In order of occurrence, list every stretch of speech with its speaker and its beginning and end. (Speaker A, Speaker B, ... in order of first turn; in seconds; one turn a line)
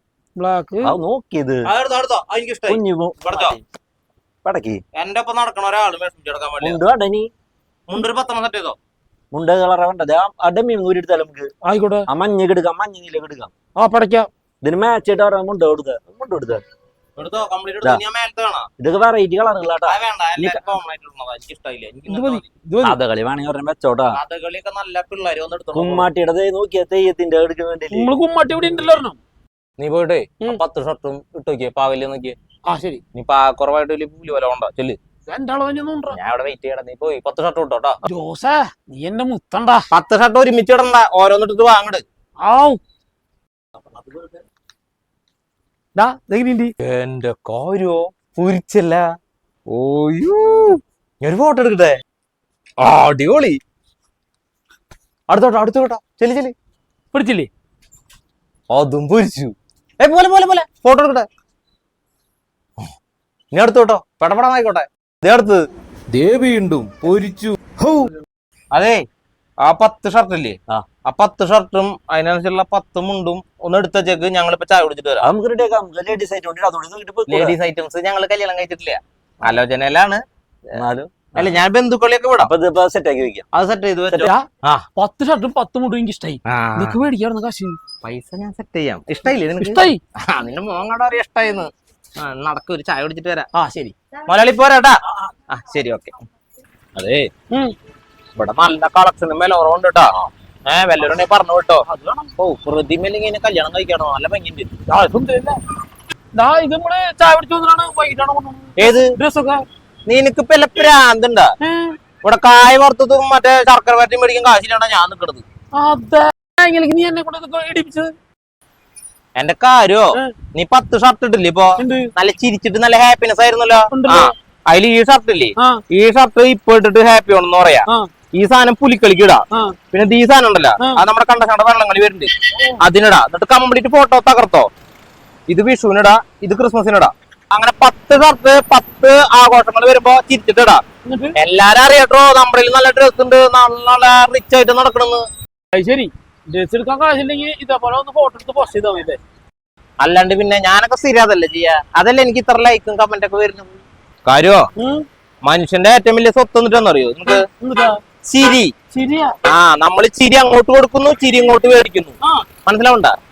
Speaker A: 0.3-1.0
Speaker B: 0.8-1.6
Speaker C: 1.6-3.6
Speaker B: 2.7-3.6
Speaker B: 4.4-4.8
Speaker C: 5.0-6.8
Speaker B: 6.6-7.3
Speaker C: 7.9-8.8
Speaker B: 9.3-11.5
Speaker A: 11.6-12.1
Speaker B: 12.1-13.5
Speaker A: 13.8-14.3
Speaker B: 14.6-16.6
Speaker C: 17.2-18.7
Speaker B: 18.8-19.9
Speaker C: 19.8-22.4
Speaker A: 20.4-20.6
Speaker A: 22.1-23.0
Speaker B: 22.8-24.2
Speaker C: 24.1-26.1
Speaker B: 25.7-28.1
Speaker A: 27.9-29.2
Speaker C: 29.8-32.4
Speaker A: 32.7-33.0
Speaker C: 33.1-35.0
Speaker A: 35.3-36.2
Speaker C: 36.1-38.0
Speaker A: 38.0-39.9
Speaker C: 39.9-42.0
Speaker A: 42.4-42.8
Speaker A: 46.0-46.7
Speaker C: 46.8-49.0
Speaker C: 49.7-52.0
Speaker C: 52.8-53.6
Speaker C: 55.3-56.5
Speaker A: 57.1-57.5
Speaker C: 58.7-61.3
Speaker C: 63.5-65.6
Speaker C: 66.1-68.0
Speaker C: 68.7-69.0
Speaker C: 69.6-75.2
Speaker B: 75.2-77.6
Speaker C: 77.3-80.2
Speaker B: 80.8-81.6
Speaker C: 81.3-82.5
Speaker B: 82.4-83.5
Speaker C: 83.5-84.8
Speaker A: 84.1-87.8
Speaker C: 86.5-87.0
Speaker C: 88.0-93.5
Speaker A: 89.6-90.0
Speaker A: 93.5-93.9
Speaker C: 94.3-95.0
Speaker C: 95.5-96.2
Speaker C: 97.0-97.3
Speaker C: 98.3-100.1
Speaker C: 100.7-101.8
Speaker A: 101.9-102.3
Speaker C: 102.4-104.7
Speaker A: 104.9-105.6
Speaker A: 106.3-109.6
Speaker C: 108.8-109.1
Speaker C: 110.1-111.5
Speaker A: 111.6-112.0
Speaker C: 112.2-115.4
Speaker A: 115.8-118.1
Speaker C: 119.3-134.7
Speaker A: 121.8-122.1
Speaker A: 123.9-124.3
Speaker C: 135.5-140.8
Speaker A: 141.0-141.3
Speaker C: 141.3-145.2
Speaker A: 145.7-149.2
Speaker C: 150.0-153.7
Speaker C: 154.3-154.7
Speaker A: 154.8-155.1
Speaker C: 155.4-157.4
Speaker A: 157.3-158.0
Speaker C: 158.2-158.7
Speaker A: 158.9-159.3
Speaker C: 159.4-163.1